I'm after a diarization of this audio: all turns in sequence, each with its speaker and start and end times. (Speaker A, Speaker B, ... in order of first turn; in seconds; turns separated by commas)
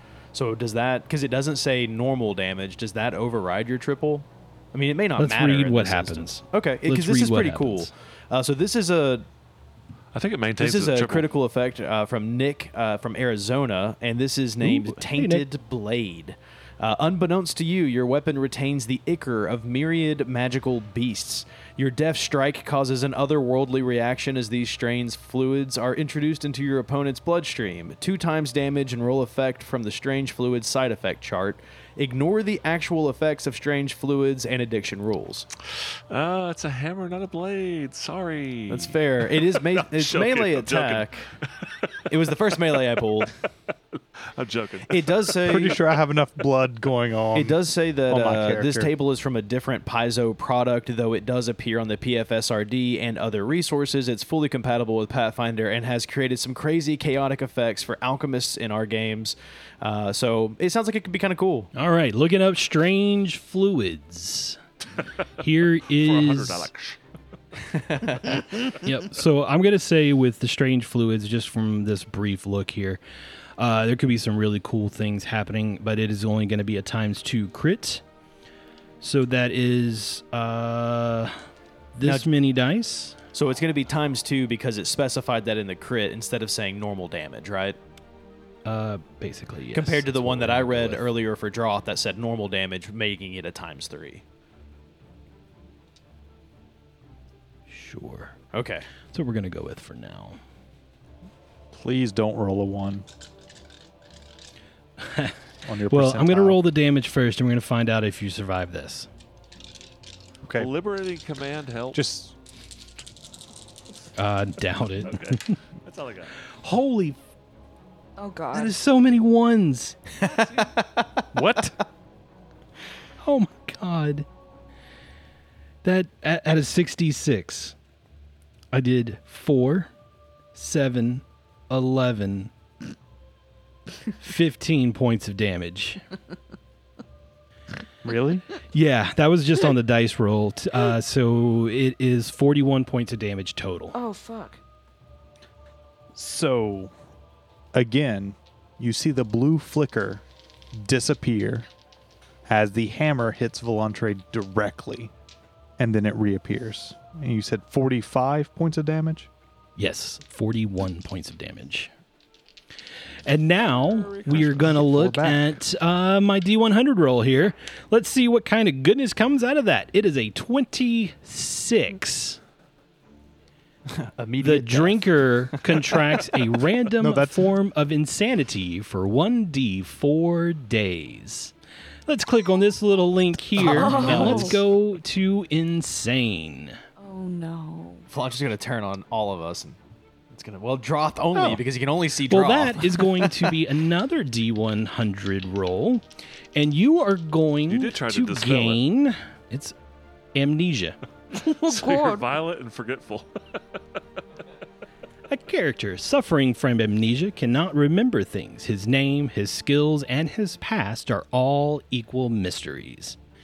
Speaker A: 0.3-9.3, Speaker B: 5.2-7.9, Speaker C: 10.1-11.3, Speaker A: 10.6-35.5, Speaker B: 14.6-15.5, Speaker C: 35.7-42.1, Speaker A: 38.7-41.3, Speaker A: 42.1-43.3, Speaker C: 44.2-45.6, Speaker A: 44.9-45.8, Speaker D: 45.4-48.9, Speaker A: 47.3-61.7, Speaker B: 61.7-64.6, Speaker B: 65.4-66.7, Speaker C: 65.9-67.0, Speaker A: 67.7-68.4, Speaker B: 68.3-73.0, Speaker B: 73.6-78.0, Speaker B: 79.0-81.4, Speaker B: 82.0-83.2, Speaker A: 83.3-87.8, Speaker B: 88.7-91.1, Speaker A: 89.7-94.2, Speaker B: 97.7-98.3, Speaker A: 98.5-98.9, Speaker B: 99.1-100.4, Speaker D: 101.7-103.0, Speaker B: 105.0-105.4, Speaker D: 105.7-106.6, Speaker B: 105.9-109.1, Speaker D: 110.5-110.7, Speaker C: 110.5-112.0, Speaker D: 111.9-112.3, Speaker B: 114.2-115.6, Speaker C: 115.0-116.4, Speaker B: 116.5-117.2, Speaker E: 118.2-118.8, Speaker B: 118.5-120.0, Speaker C: 120.2-120.7, Speaker A: 120.2-121.1, Speaker D: 121.3-121.8, Speaker B: 123.2-124.3, Speaker B: 125.8-127.8, Speaker B: 128.7-129.9, Speaker B: 130.5-132.5, Speaker B: 134.2-136.1, Speaker D: 138.0-138.4, Speaker B: 138.7-144.0, Speaker E: 143.9-144.6, Speaker D: 146.1-146.9, Speaker D: 147.7-151.7, Speaker D: 152.5-155.1, Speaker D: 155.8-159.3, Speaker B: 159.8-161.9, Speaker B: 163.3-172.4, Speaker C: 163.6-164.9, Speaker D: 164.8-165.6, Speaker A: 173.9-176.0, Speaker B: 174.4-181.5, Speaker D: 177.0-177.5, Speaker B: 182.1-186.8, Speaker A: 183.6-184.6, Speaker E: 183.7-184.6, Speaker E: 187.0-188.1, Speaker A: 188.1-189.8, Speaker A: 190.3-193.6, Speaker B: 192.3-199.8, Speaker C: 197.7-198.8, Speaker B: 200.3-201.0, Speaker E: 201.3-202.3, Speaker C: 201.4-203.3, Speaker B: 205.3-213.2